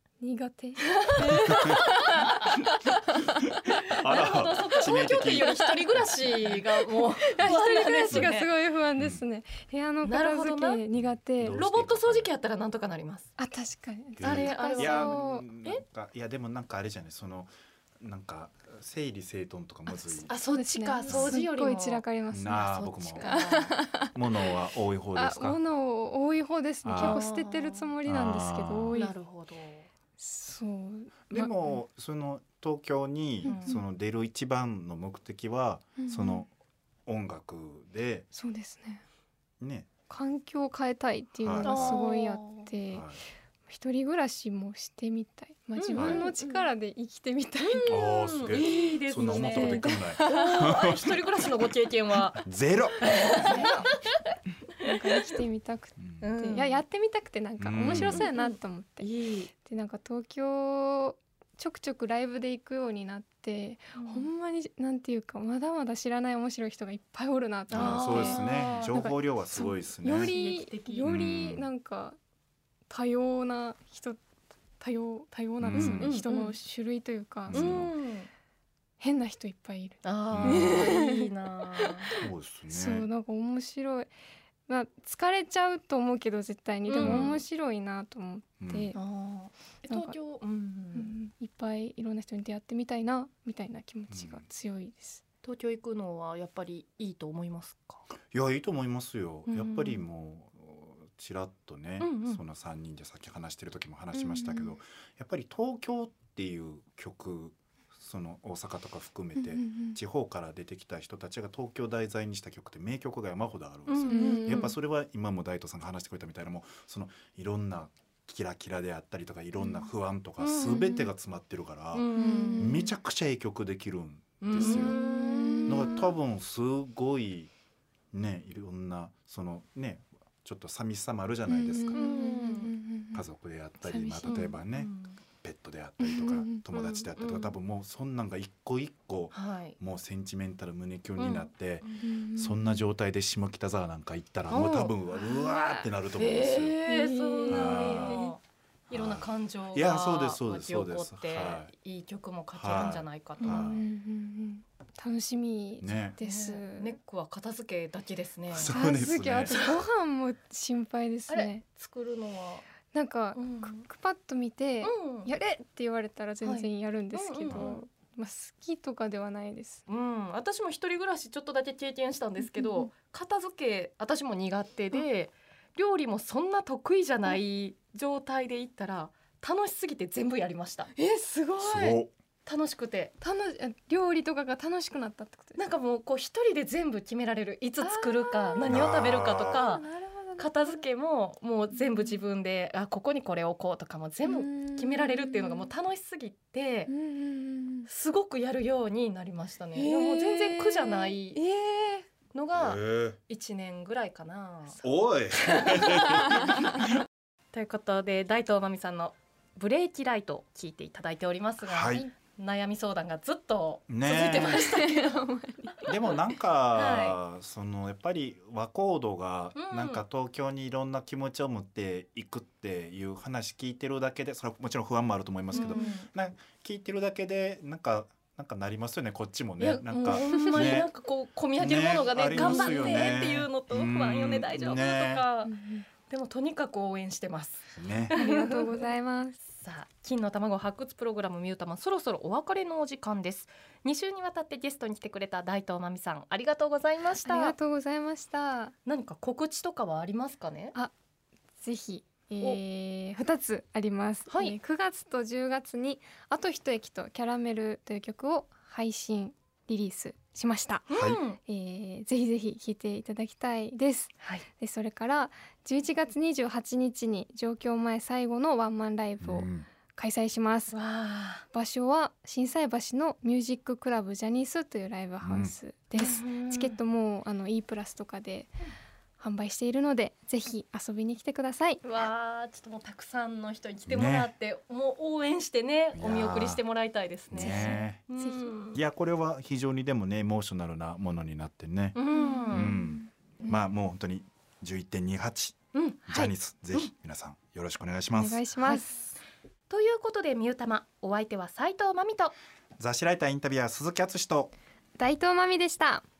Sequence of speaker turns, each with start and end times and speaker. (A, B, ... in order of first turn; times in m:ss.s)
0:00.2-0:02.4 A
0:00.9-0:02.9 B
0:01.4-0:02.7 C
0:03.4-0:06.0 C
0:03.7-0:08.5 B
0:04.8-0:05.7 A
0:06.4-0:11.6 A
0:08.1-0:08.3 C
0:10.0-0:10.8 B
0:11.0-0:12.3 C
0:11.4-0:13.3 B
0:13.4-0:15.4 A
0:14.2-0:20.4 C
0:14.2-0:15.8 B
0:20.3-0:22.0 B
0:20.3-0:24.1 A
0:21.0-0:21.4 C
0:22.3-0:23.4 C
0:22.5-0:23.7 B
0:24.1-0:25.6 C
0:25.1-0:29.1 A
0:26.8-0:27.2 C
0:27.0-0:27.9 B
0:28.0-0:29.0 C
0:28.9-0:29.9 B
0:30.2-0:31.7 A
0:31.3-0:36.5 C
0:33.4-0:33.8 A
0:33.4-0:33.8 B
0:36.0-0:36.4 A
0:37.0-0:38.3 C
0:38.3-0:39.0 A
0:39.6-0:39.9 C
0:40.1-0:43.1 A
0:41.4-0:42.0 C
0:41.6-0:42.7 B
0:42.9-0:43.2 C
0:43.7-0:48.0 A
0:45.8-0:46.6 B
0:45.9-0:46.3 C
0:47.6-0:52.4 B
0:47.8-0:51.2 C
0:49.4-0:50.7 A
0:52.4-0:53.4 C
0:53.0-0:53.7 B
0:53.3-0:54.0 A
0:54.8-1:12.2 A
0:54.8-0:55.2 B
0:56.0-0:56.3 C
0:56.2-0:56.8 B
0:57.6-0:58.2 C
0:57.8-0:59.5 B
1:04.0-1:04.3 B
1:07.7-1:09.0 B
1:07.7-1:10.3 C
1:10.0-1:11.1 B
1:11.0-1:11.6 C
1:12.9-1:14.2 A
1:14.8-1:17.7 A
1:15.6-1:16.1 C
1:15.7-1:16.5 B
1:17.5-1:17.9 C
1:17.5-1:18.3 B
1:19.0-1:24.1 A
1:20.0-1:22.1 B
1:20.3-1:20.9 C
1:22.1-1:23.0 C
1:24.7-1:29.0 A
1:26.9-1:27.4 B
1:27.0-1:27.3 C
1:28.6-1:28.9 C
1:28.9-1:31.1 B
1:29.9-1:30.2 A
1:30.9-1:35.2 A
1:34.1-1:34.4 C
1:35.4-1:38.0 B
1:38.3-2:05.0 C
1:39.5-1:40.0 B
1:42.0-1:42.4 B
1:44.1-1:44.7 A
1:49.4-1:50.0 A
1:53.9-1:54.7 B
1:54.1-1:54.7 A
1:59.6-2:01.1 B
2:01.9-2:02.7 B
2:02.1-2:02.9 A
2:04.4-2:06.0 B
2:04.6-2:06.1 A
2:05.6-2:07.5 C
2:08.1-2:12.0 C
2:11.4-2:13.2 A
2:11.9-2:12.7 B
2:13.1-2:26.8 C
2:13.8-2:14.5 A
2:14.2-2:15.2 B
2:16.0-2:16.6 A
2:16.7-2:17.5 B
2:19.3-2:19.8 B
2:21.2-2:22.0 B
2:22.0-2:22.8 A
2:24.5-2:25.0 B
2:25.1-2:25.9 A
2:26.1-2:33.7 B
2:26.8-2:28.3 A
2:27.5-2:28.3 C
2:28.9-2:31.7 C
2:32.5-2:33.8 C
2:33.4-2:37.0 A
2:35.8-2:36.2 C
2:36.2-2:38.7 B
2:38.5-2:39.6 C
2:38.7-2:41.6 A
2:39.4-2:39.8 B
2:41.3-2:42.6 B
2:42.9-2:49.8 A
2:43.3-2:43.8 B
2:44.8-2:45.3 B
2:46.4-2:47.8 B
2:47.4-2:47.7 C
2:49.9-3:03.1 B
2:52.4-2:52.9 A
3:01.0-3:01.5 A
3:01.6-3:02.1 C
3:03.2-3:05.6 A
3:05.6-3:16.9 B
3:07.8-3:08.8 A
3:08.6-3:09.6 C
3:09.5-3:10.8 A
3:11.7-3:12.2 A
3:14.2-3:15.7 A
3:16.9-3:17.9 A
3:17.9-3:21.4 B
3:19.7-3:22.0 A
3:22.2-3:24.8 B
3:22.5-3:23.2 C
3:24.8-3:26.4 C
3:25.4-3:26.6 B
3:26.3-3:26.9 A
3:27.5-3:35.3 B
3:31.6-3:32.1 C
3:33.9-3:34.6 C
3:34.4-3:36.1 A
3:35.8-3:50.9 C
3:36.7-3:37.2 B
3:39.6-3:40.0 B
3:45.5-3:46.1 B
3:49.6-3:55.5 B
3:50.2-3:50.8 A
3:51.6-3:55.2 C
3:52.4-3:52.9 A
3:55.4-3:55.8 A
3:56.0-3:58.9 B
3:57.7-3:58.2 C
3:58.1-3:59.4 A
3:59.4-4:07.5 B
4:07.2-4:08.7 A
4:08.8-4:10.8 B
4:11.6-4:20.9 A
4:14.3-4:14.6 B
4:20.9-4:21.4 B
4:20.9-4:21.2 C
4:21.4-4:30.8 A
4:29.2-4:29.6 C
4:30.7-4:31.4 B
4:31.5-4:38.5 A
4:35.2-4:35.5 C
4:35.9-4:36.8 B
4:39.2-4:41.8 A
4:41.8-4:48.8 B
4:43.9-4:44.3 C
4:45.9-4:46.6 C
4:47.3-4:48.0 C
4:47.4-4:48.5 A
4:48.6-4:52.0 C
4:51.9-4:52.8 B
4:52.1-4:53.5 A
4:52.5-4:58.4 C
4:55.7-4:56.9 B
4:58.1-4:59.0 A
4:58.6-4:59.2 B
4:59.7-5:02.3 B
5:02.8-5:04.5 C
5:05.0-5:06.0 A